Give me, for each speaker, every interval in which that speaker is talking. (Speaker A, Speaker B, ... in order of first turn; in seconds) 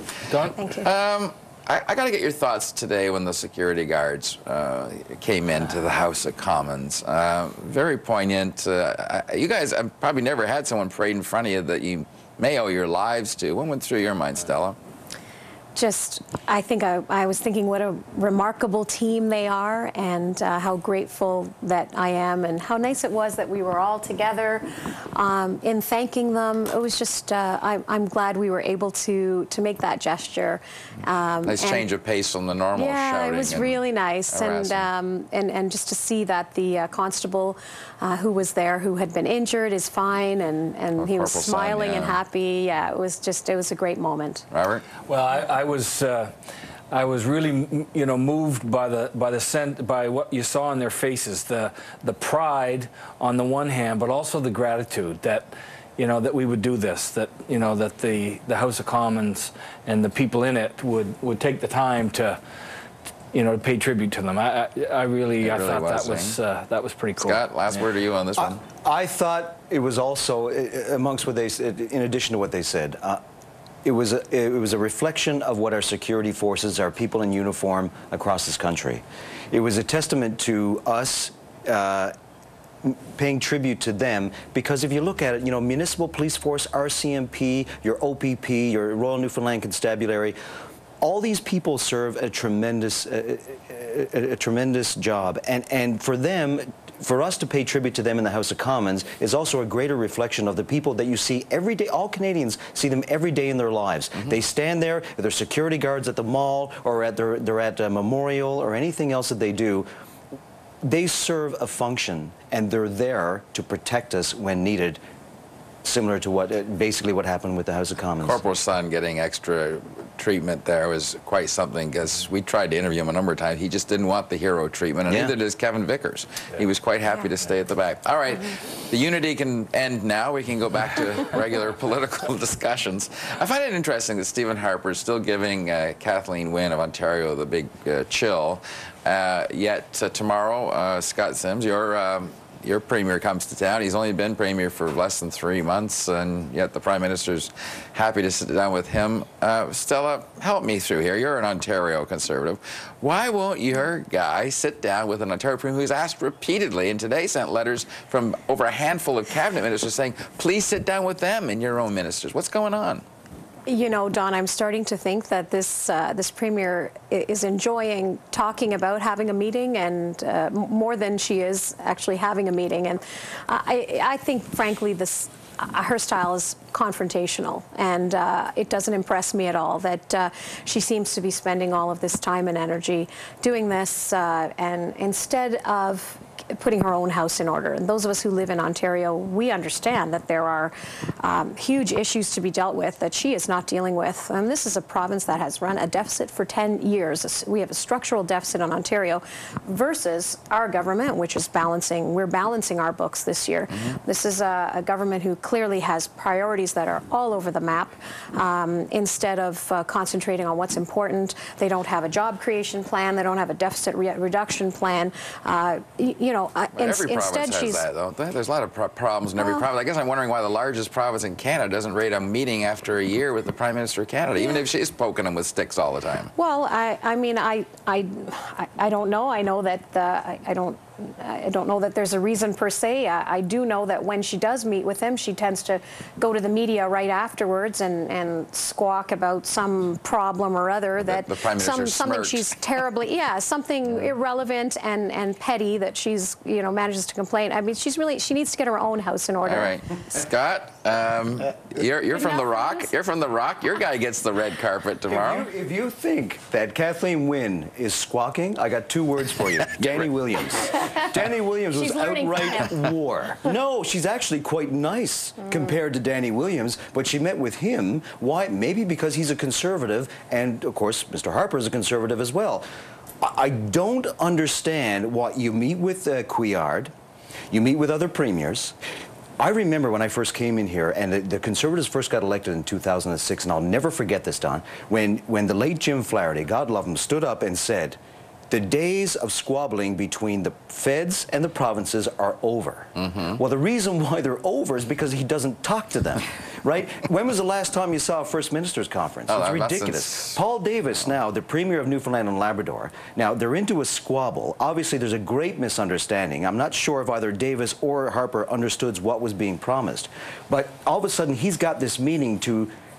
Speaker A: 0.3-0.6, 45.0-46.3, 46.9-62.4, 63.3-67.8
Speaker B: 0.6-0.9, 15.8-31.9, 32.8-44.5, 163.7-217.8, 219.4-219.6, 226.3-249.8, 252.1-252.9, 261.7-262.9
Speaker C: 0.7-14.8, 31.4-34.9, 41.0-42.2, 44.5-44.9, 65.4-66.4, 67.2-68.6, 118.2-163.0, 216.7-226.3, 241.0-242.8, 249.4-255.5, 293.0-293.4, 299.3-300.4
Speaker D: 68.4-73.2, 73.8-82.1, 82.8-90.4, 91.0-109.9, 110.8-115.0, 115.8-118.4, 125.1-125.3, 255.1-272.6, 273.2-276.9, 277.5-278.8, 279.4-288.0, 288.5-312.7